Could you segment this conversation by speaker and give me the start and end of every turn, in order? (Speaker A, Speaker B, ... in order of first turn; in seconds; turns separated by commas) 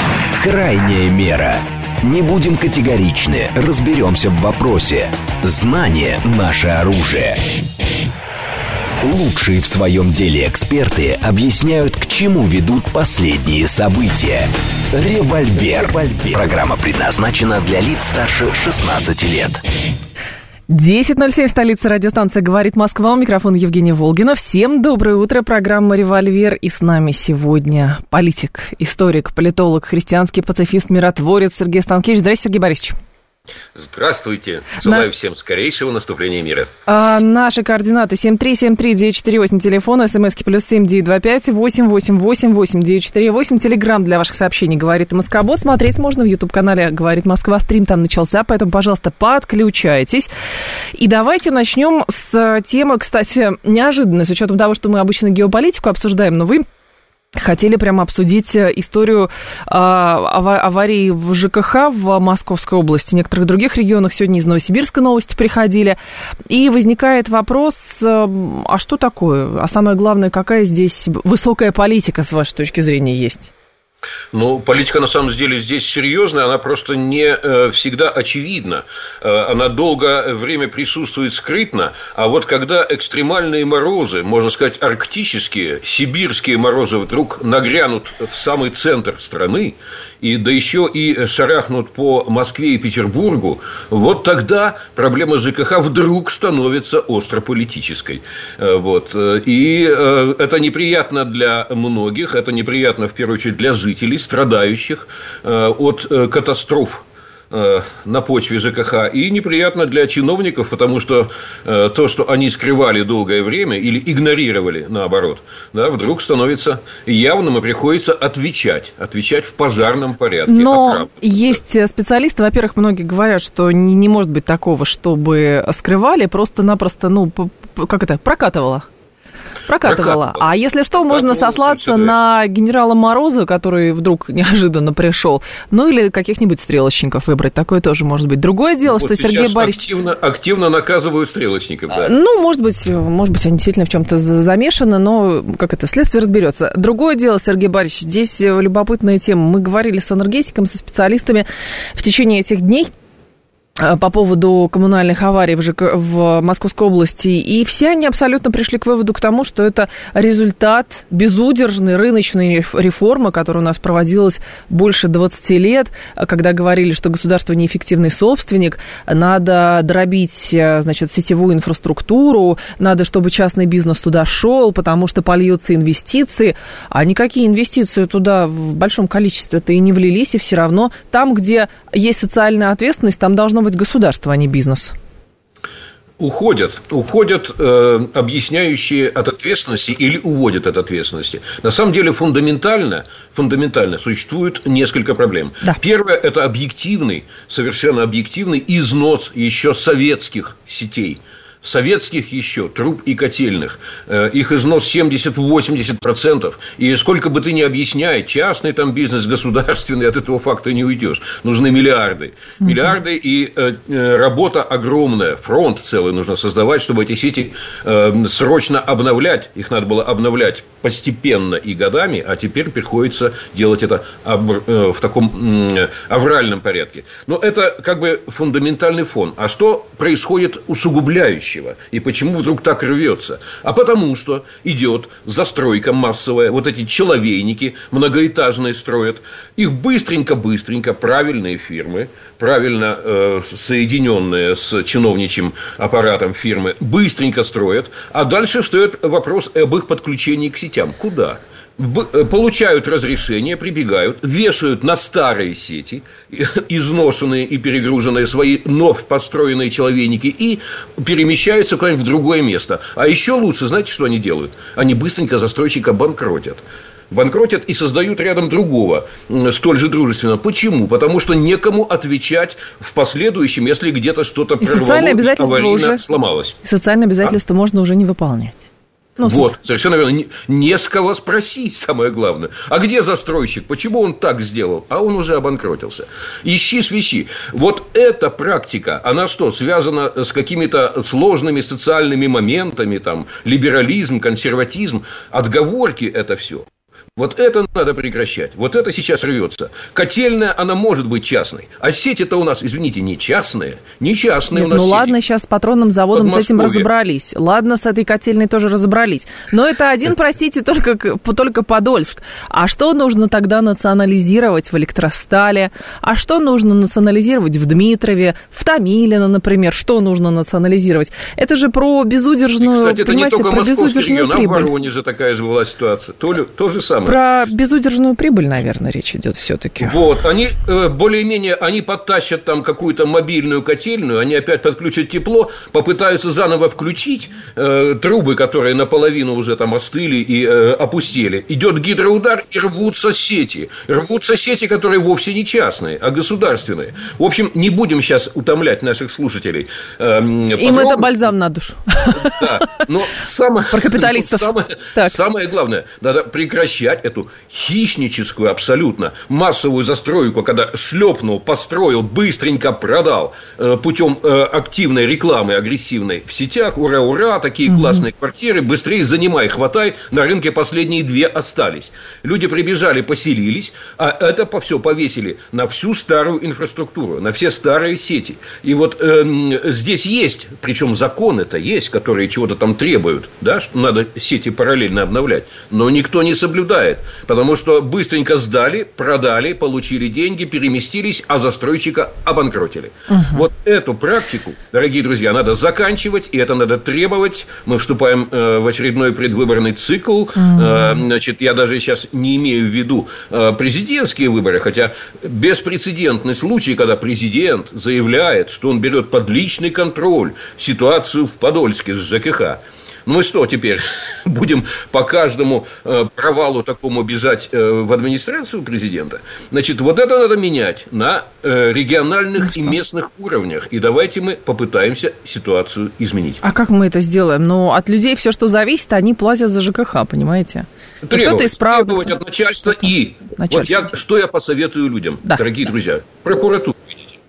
Speaker A: 0.4-7.4, Speaker A: 9.0-19.6, Speaker B: 20.7-33.0, Speaker C: 33.7-36.7, Speaker B: 36.9-50.3, Speaker B: 51.0-56.6, Speaker B: 57.4-66.0, Speaker B: 66.5-73.5, Speaker C: 74.3-121.6, Speaker B: 120.5-128.9, Speaker B: 129.7-139.8, Speaker C: 129.8-130.4, Speaker C: 131.1-132.2, Speaker C: 138.8-142.1, Speaker B: 141.9-152.9, Speaker B: 153.8-184.9, Speaker C: 186.2-276.6, Speaker B: 274.6-276.0, Speaker B: 276.6-278.6, Speaker B: 279.2-279.5, Speaker C: 279.2-305.1, Speaker B: 304.5-324.7, Speaker C: 306.1-306.9, Speaker C: 322.6-327.2, Speaker B: 327.0-329.9, Speaker C: 329.8-351.1, Speaker B: 350.6-352.8, Speaker C: 352.1-426.4, Speaker B: 353.7-355.1, Speaker B: 367.7-368.0, Speaker B: 393.1-393.4, Speaker B: 400.4-401.0, Speaker B: 426.4-433.8, Speaker C: 431.0-437.1